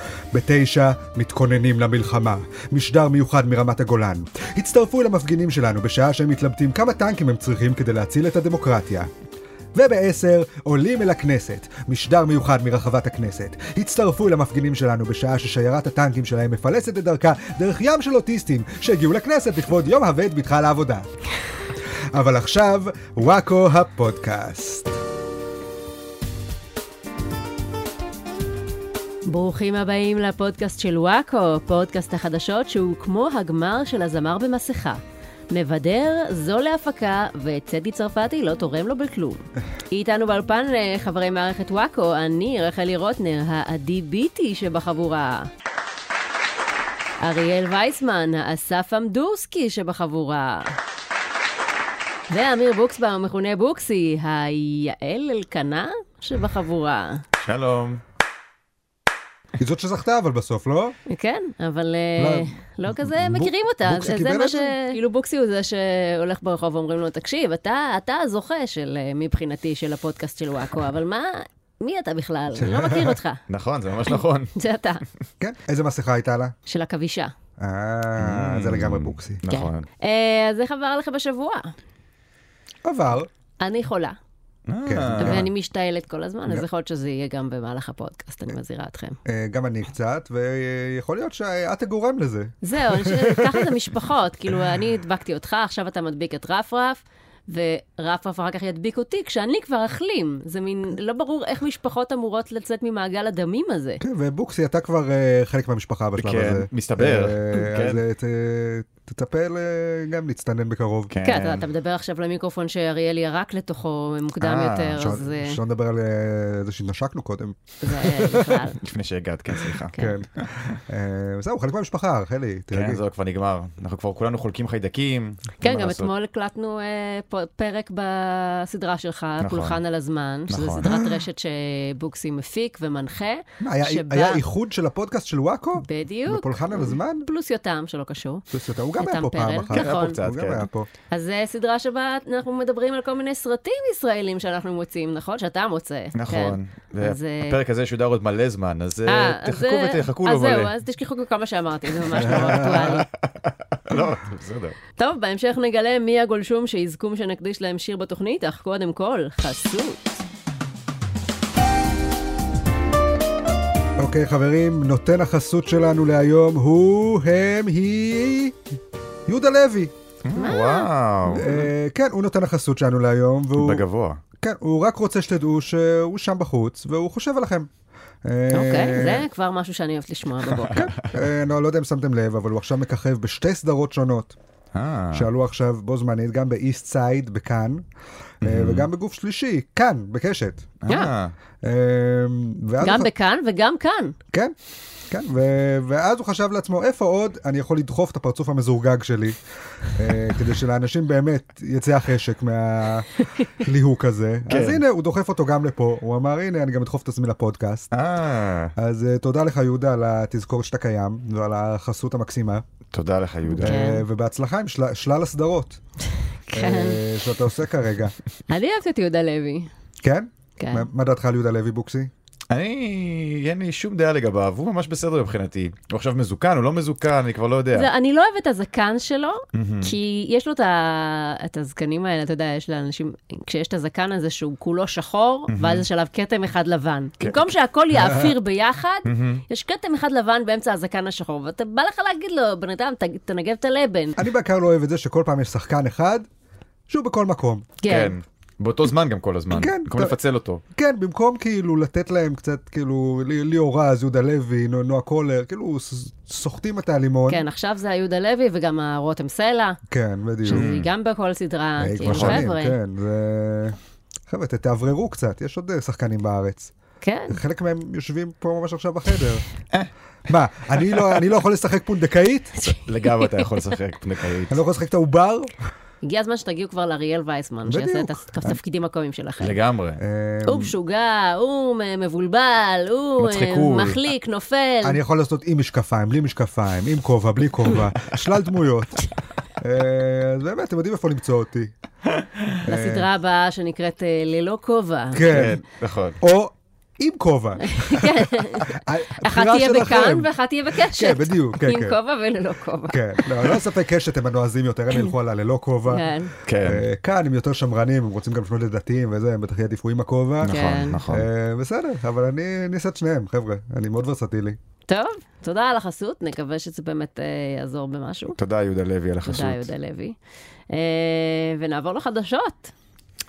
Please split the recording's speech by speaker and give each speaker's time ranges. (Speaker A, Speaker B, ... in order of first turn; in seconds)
Speaker A: 0.3-9.1, 9.7-21.1, 22.1-25.0, 59.6-61.0, 62.2-64.8, 72.5-73.2, 75.4-76.5, 77.6-79.4, 82.8-83.3, 84.8-85.5, 89.2-93.7, 104.0-111.1, 114.9-118.4, 120.0-123.0, 130.8-131.2, 133.6-137.3, 138.5-140.9, 152.2-153.0, 164.0-168.6, 169.3-169.9, 171.3-173.8, 174.4-177.7, 178.2-179.2, 180.7-184.3, 185.1-187.8, 188.4-190.8, 191.6-193.1, 195.1-207.9, 208.8-212.6, 213.6-215.8, 216.5-218.2, 220.0-222.1, 237.9-238.3, 244.2-246.2, 246.9-247.7, 249.5-250.2, 250.7-257.4, 259.9-260.7, 261.8-263.8, 264.3-266.7, 267.3-269.4, 270.3-272.5, 274.5-275.6, 277.7-278.6, 280.0-280.7, 284.8-289.1, 289.6-291.7, 292.6-293.1, 295.1-295.6, 296.2-300.3, 300.9-302.0, 302.9-306.1, 306.6-314.6
Speaker B: 29.2-45.5, 47.2-50.8, 52.3-57.2, 61.1-73.4, 74.5-75.0, 76.7-77.3, 79.5-81.7, 83.6-84.2, 85.2-89.2, 92.6-104.0, 111.2-115.6, 117.8-118.8, 119.9-120.2, 125.6-134.4, 135.8-138.4, 139.0-140.2, 141.1-147.6, 149.1-153.1, 155.0-160.2, 170.3-171.6, 178.5-180.9, 192.8-194.2, 213.5-214.0, 216.5-217.0, 218.5-219.7, 220.6-220.9, 227.7-244.2, 247.8-248.1, 257.3-259.8, 260.4-262.8, 267.0-267.4, 272.6-273.7, 276.0-279.6, 280.4-285.0, 292.6-295.4, 297.6-303.6, 305.9-306.3, 310.4-311.0, 314.9-318.4, 319.2-320.1, 320.7-322.7
Speaker C: 57.4-58.0, 73.5-74.5, 78.2-79.8, 84.7-85.5, 106.2-108.0, 111.1-111.7, 114.4-115.0, 118.4-120.8, 122.7-126.1, 129.4-129.8, 130.5-130.9, 139.7-140.7, 146.1-150.7, 152.2-154.8, 170.2-171.6, 173.6-174.2, 180.6-181.1, 184.7-185.3, 188.4-188.9, 190.8-191.3, 204.5-204.8, 207.9-208.7, 212.9-213.8, 222.5-227.9, 229.5-229.9, 235.5-235.8, 237.2-237.5, 239.0-239.4, 247.9-250.6, 260.5-260.9, 262.0-262.5, 272.8-274.6, 279.4-280.0, 283.2-284.0, 295.2-296.2, 306.4-306.8, 310.4-311.3, 318.3-319.7